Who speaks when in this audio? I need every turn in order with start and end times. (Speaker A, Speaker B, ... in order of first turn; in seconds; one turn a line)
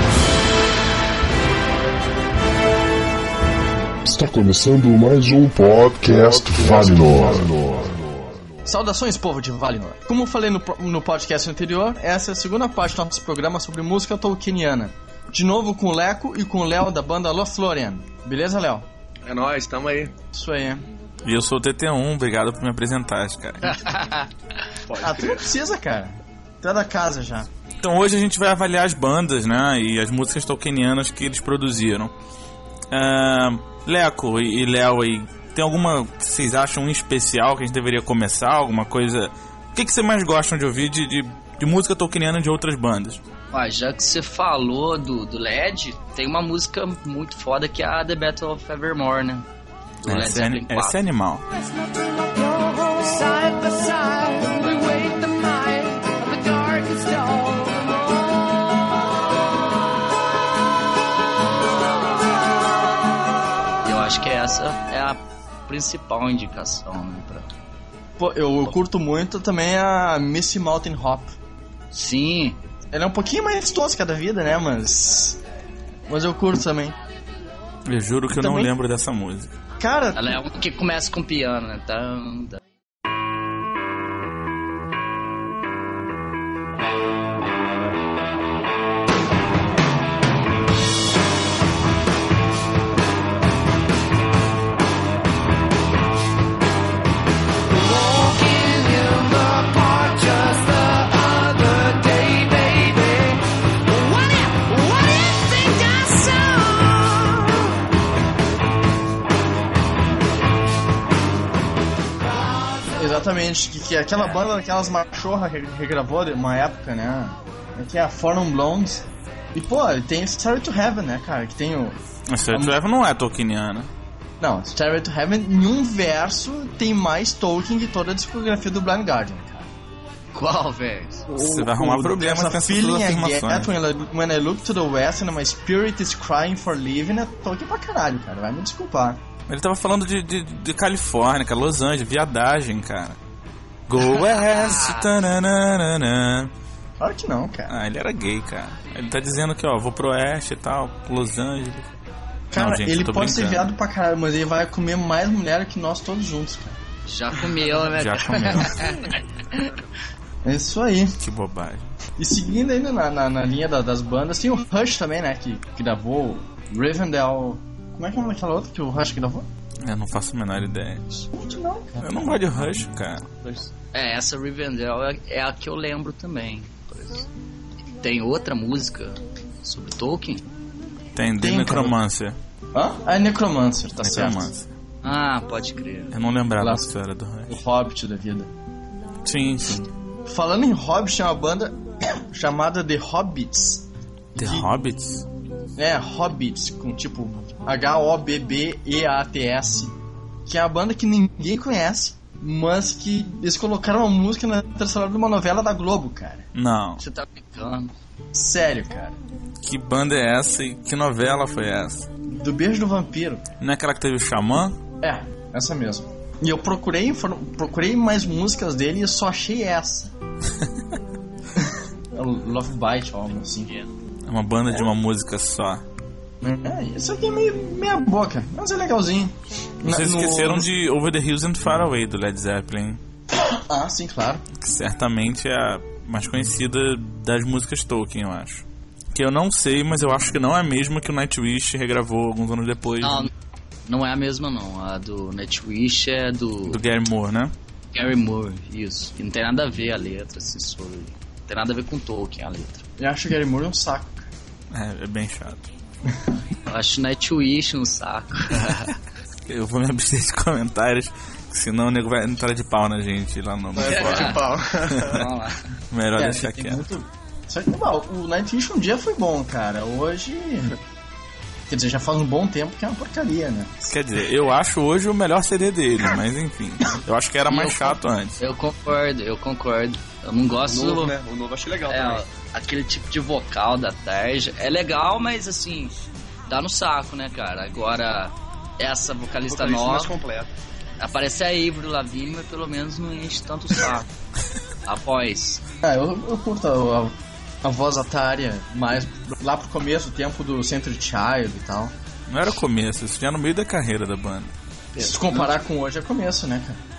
Speaker A: 4.0-8.4
Speaker B: 8.7-18.9
Speaker C: 19.2-20.1
Speaker B: 20.3-20.9
Speaker D: 21.2-23.8
Speaker E: 23.6-24.3
Speaker C: 24.9-25.4
Speaker B: 25.0-27.5
Speaker D: 27.8-32.1
Speaker D: 32.9-43.2
Speaker E: 43.5-49.5
Speaker E: 50.0-51.0
Speaker D: 50.0-51.5
Speaker F: 51.6-58.4
Speaker E: 63.8-67.5
Speaker B: 68.2-71.3
Speaker E: 71.9-72.6
Speaker B: 72.9-75.4
Speaker B: 76.1-77.0
Speaker D: 77.9-79.5
Speaker B: 78.4-78.7
Speaker B: 79.8-80.4
Speaker E: 80.2-82.6
Speaker F: 97.7-107.7
Speaker B: 112.9-122.0
Speaker D: 122.3-123.9
Speaker B: 122.5-122.8
Speaker B: 124.4-129.7
Speaker E: 130.3-131.3
Speaker B: 131.3-139.2
Speaker D: 131.4-133.7
Speaker D: 139.5-143.2
Speaker D: 143.9-146.5
Speaker E: 144.0-145.1
Speaker B: 147.0-147.7
Speaker D: 147.7-151.9
Speaker B: 152.5-156.8
Speaker D: 152.6-153.7
Speaker E: 157.1-159.7
Speaker D: 157.8-158.9
Speaker B: 160.4-161.2
Speaker D: 161.2-161.9
Speaker B: 162.2-169.5
Speaker D: 169.8-171.1
Speaker B: 171.3-172.4
Speaker D: 172.0-173.3
Speaker E: 173.9-177.3
Speaker E: 178.0-180.5
Speaker D: 181.2-182.3
Speaker B: 181.4-182.0
Speaker B: 182.7-184.5
Speaker D: 184.0-184.7
Speaker E: 185.0-186.1
Speaker D: 186.1-187.6
Speaker B: 186.6-186.9
Speaker B: 187.5-188.5
Speaker D: 189.2-189.9
Speaker B: 190.3-194.7
Speaker D: 194.4-195.3
Speaker B: 195.8-199.9
Speaker B: 200.5-206.5
Speaker D: 206.5-207.0
Speaker E: 207.0-207.9
Speaker B: 208.3-209.2
Speaker D: 209.6-212.1
Speaker B: 212.3-213.4
Speaker D: 213.6-214.8
Speaker B: 215.0-220.1
Speaker B: 221.6-223.7
Speaker E: 223.7-223.9
Speaker D: 224.3-225.8
Speaker B: 226.4-230.7
Speaker D: 229.8-233.0
Speaker B: 233.3-234.4
Speaker D: 234.5-243.3
Speaker E: 243.0-243.3
Speaker E: 243.9-246.8
Speaker D: 246.7-247.5
Speaker E: 247.9-252.8
Speaker B: 253.0-254.3
Speaker D: 254.7-255.7
Speaker E: 256.7-259.0
Speaker D: 259.5-265.2
Speaker C: 263.8-265.3
Speaker E: 263.8-265.7
Speaker D: 265.9-266.9
Speaker B: 266.2-270.8
Speaker B: 271.7-273.7
Speaker D: 273.8-278.4
Speaker E: 277.5-281.1
Speaker C: 280.7-282.2
Speaker E: 281.9-285.9
Speaker E: 286.5-290.1
Speaker C: 289.5-290.5
Speaker E: 291.0-294.1
Speaker E: 294.9-295.6
Speaker B: 295.8-301.9
Speaker D: 302.3-304.5
Speaker E: 304.9-305.5
Speaker B: 305.0-306.8